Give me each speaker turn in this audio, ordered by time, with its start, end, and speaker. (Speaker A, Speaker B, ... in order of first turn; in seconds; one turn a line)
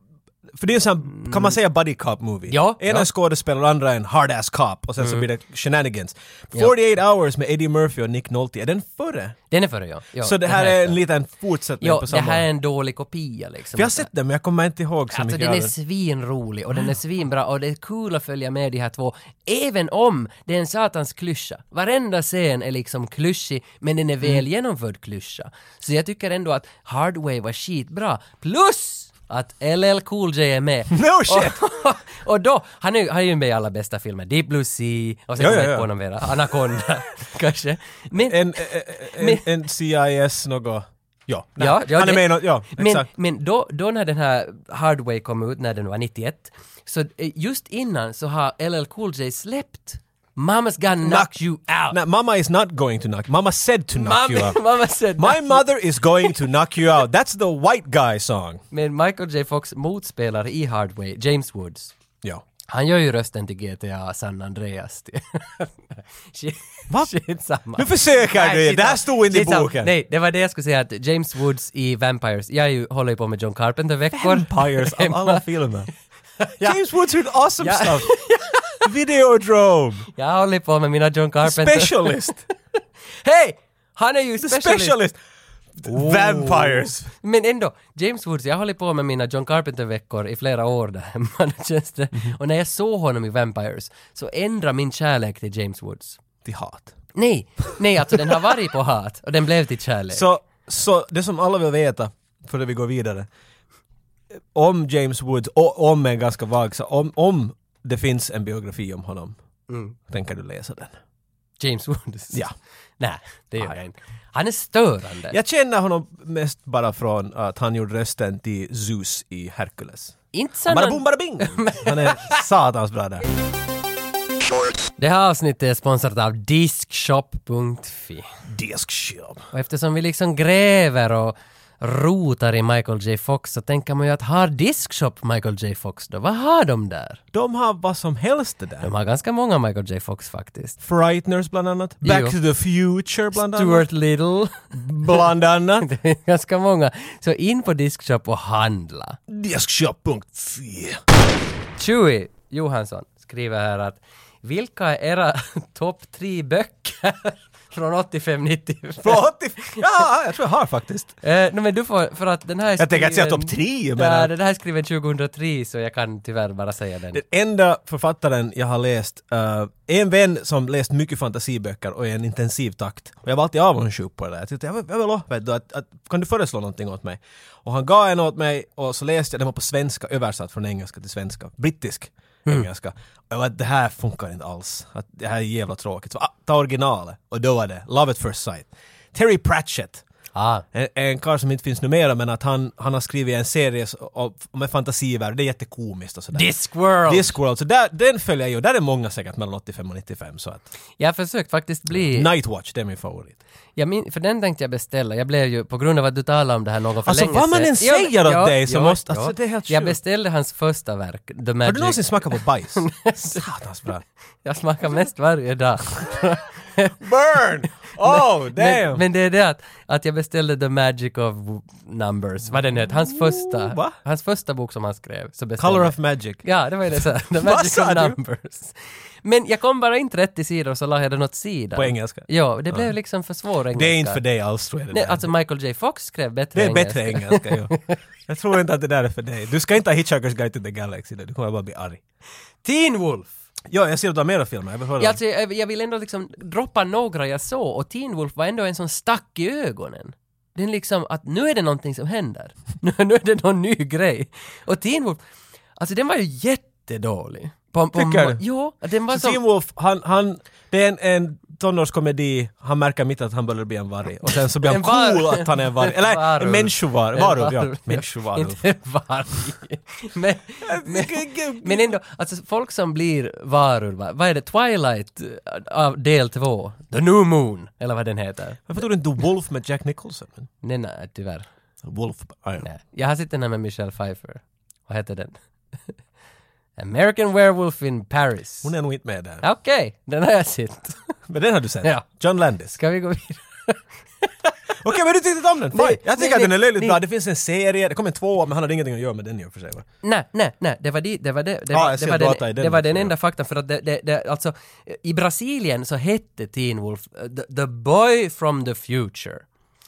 Speaker A: 0.6-9.4
Speaker B: 2.5-3.1
Speaker B: 9.5-11.0
Speaker A: 10.2-12.4
Speaker B: 11.8-14.1
Speaker A: 13.7-15.7
Speaker B: 15.1-39.4
Speaker A: 30.9-31.6
Speaker A: 35.4-35.9
Speaker A: 38.2-43.1
Speaker B: 41.6-52.0
Speaker A: 51.0-51.3
Speaker A: 51.9-54.6
Speaker B: 54.0-55.6
Speaker A: 55.2-58.6
Speaker B: 58.7-61.9
Speaker B: 62.7-75.4
Speaker A: 67.7-69.9
Speaker A: 74.1-75.9
Speaker B: 76.4-76.8
Speaker A: 76.6-78.1
Speaker B: 77.6-78.8
Speaker A: 78.8-80.1
Speaker B: 80.1-82.3
Speaker A: 81.4-82.4
Speaker B: 83.2-85.0
Speaker A: 84.4-85.2
Speaker A: 85.8-87.1
Speaker B: 85.8-96.2
Speaker A: 96.4-97.0
Speaker B: 97.1-100.2
Speaker A: 100.1-103.3
Speaker A: 104.5-109.4
Speaker B: 109.7-110.0
Speaker A: 110.1-111.0
Speaker B: 111.6-112.5
Speaker B: 113.0-115.4
Speaker A: 115.3-120.2
Speaker B: 120.3-122.4
Speaker A: 120.7-123.2
Speaker B: 125.0-128.3
Speaker A: 128.5-129.4
Speaker B: 129.5-137.2
Speaker A: 137.3-138.9
Speaker B: 138.8-140.8
Speaker A: 140.8-143.9
Speaker B: 142.0-142.3
Speaker B: 143.3-145.2
Speaker A: 144.7-145.9
Speaker B: 145.8-149.2
Speaker A: 149.3-151.0
Speaker B: 151.8-159.8
Speaker A: 159.0-161.1
Speaker B: 161.2-167.2
Speaker A: 162.8-164.3
Speaker A: 167.1-190.0
Speaker B: 190.3-190.6
Speaker A: 190.7-196.5
Speaker B: 196.3-197.3
Speaker A: 197.1-200.6
Speaker B: 201.0-202.3
Speaker A: 201.9-203.4
Speaker B: 203.8-213.4
Speaker A: 207.0-210.0
Speaker A: 211.6-214.0
Speaker B: 214.4-217.0
Speaker A: 217.0-219.0
Speaker B: 218.0-234.2
Speaker A: 223.1-223.9
Speaker A: 225.6-228.2
Speaker A: 231.8-232.9
Speaker A: 233.7-235.3
Speaker B: 234.9-237.9
Speaker A: 236.5-242.0
Speaker B: 242.6-243.3
Speaker A: 243.7-245.2
Speaker B: 245.0-255.2
Speaker B: 255.8-259.4
Speaker A: 257.9-258.4
Speaker A: 259.1-268.6
Speaker B: 264.6-278.7
Speaker A: 270.6-271.9
Speaker A: 278.7-280.5
Speaker B: 280.6-281.4
Speaker A: 281.8-282.6
Speaker B: 282.6-285.4
Speaker B: 286.8-288.7
Speaker A: 288.6-289.4
Speaker B: 289.4-291.1
Speaker A: 291.3-292.8
Speaker B: 292.8-294.5
Speaker A: 294.8-299.9
Speaker B: 295.7-297.0
Speaker B: 300.0-309.4
Speaker A: 301.7-303.1